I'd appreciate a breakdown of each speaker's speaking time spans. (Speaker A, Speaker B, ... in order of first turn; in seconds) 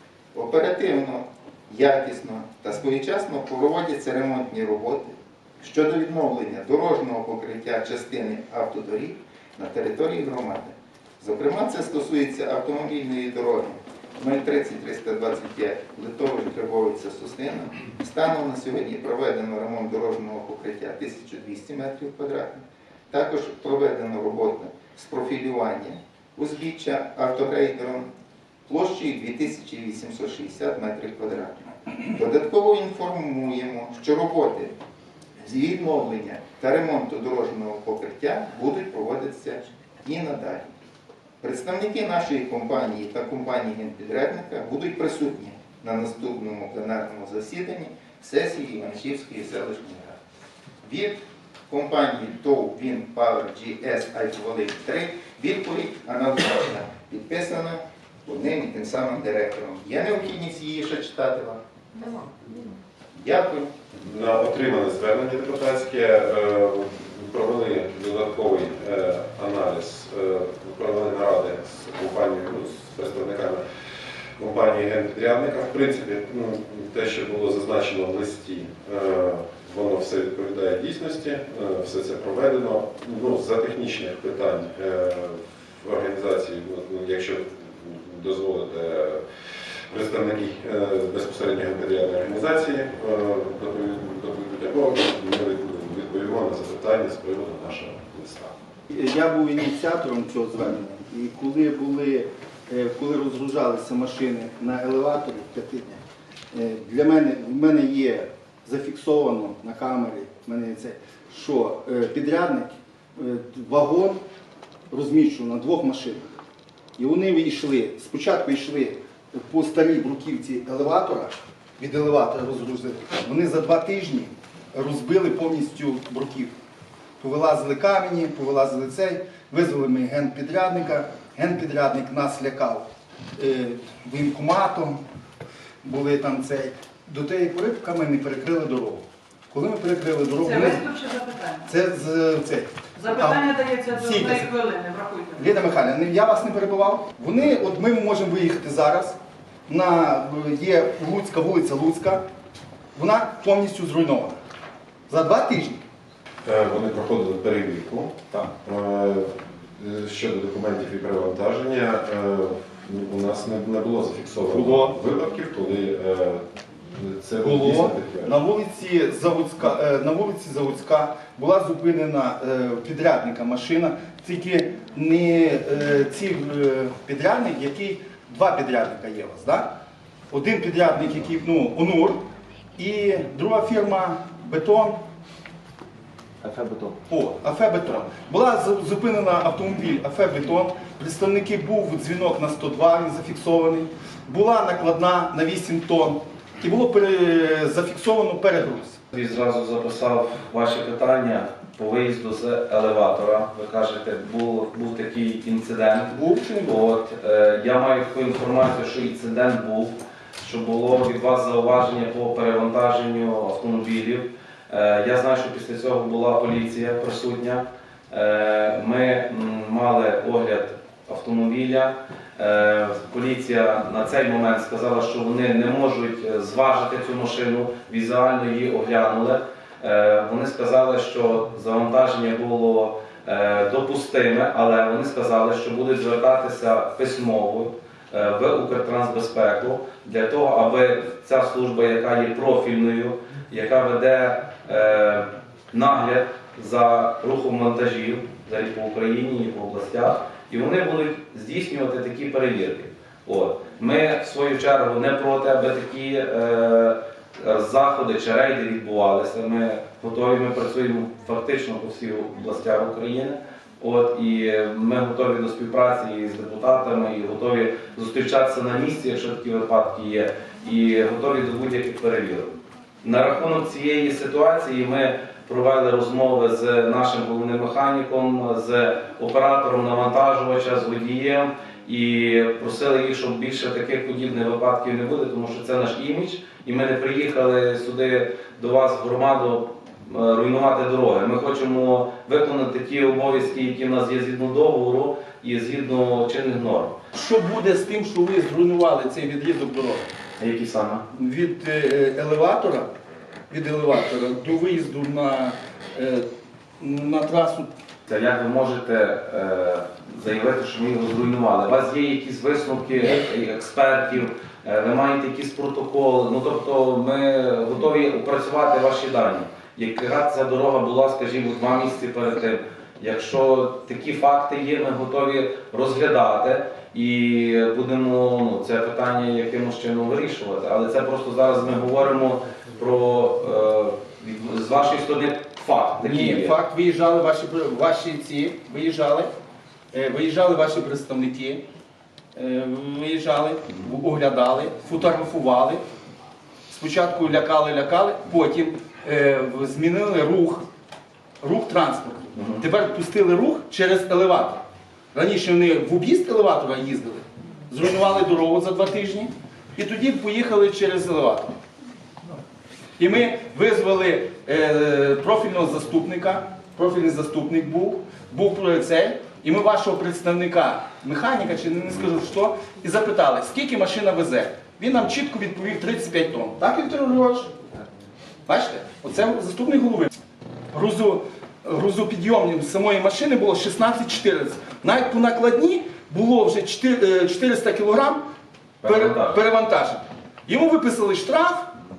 Speaker A: 0.3-28.1, 28.7-34.7, 35.4-40.7, 41.4-50.2, 50.8-51.2, 51.7-61.6, 63.1-63.7
Speaker B: 64.0-73.6, 74.4-89.2, 89.9-98.5, 156.4-166.4, 166.9-168.4
Speaker C: 98.9-106.0, 106.5-114.2, 114.9-116.2, 117.0-126.5, 127.2-132.8, 133.4-135.0, 135.8-140.9, 141.7-144.5, 145.3-149.2, 149.7-152.2, 152.9-154.3, 155.1-155.8, 164.5-164.9, 167.4-179.7, 180.3-182.2, 182.8-185.0, 187.1-199.0, 206.1-206.8, 297.1-300.1, 301.1-302.9, 303.5-306.2, 306.8-307.7, 336.0-339.3, 339.9-341.6, 342.4-345.8, 346.7-350.6, 351.4-361.5, 363.0-377.5, 378.5-380.1, 380.7-388.2, 388.8-391.7
Speaker D: 140.4-141.6, 143.0-145.4
Speaker E: 199.1-297.0, 300.4-301.0, 308.1-336.6, 352.4-352.6, 388.8-389.4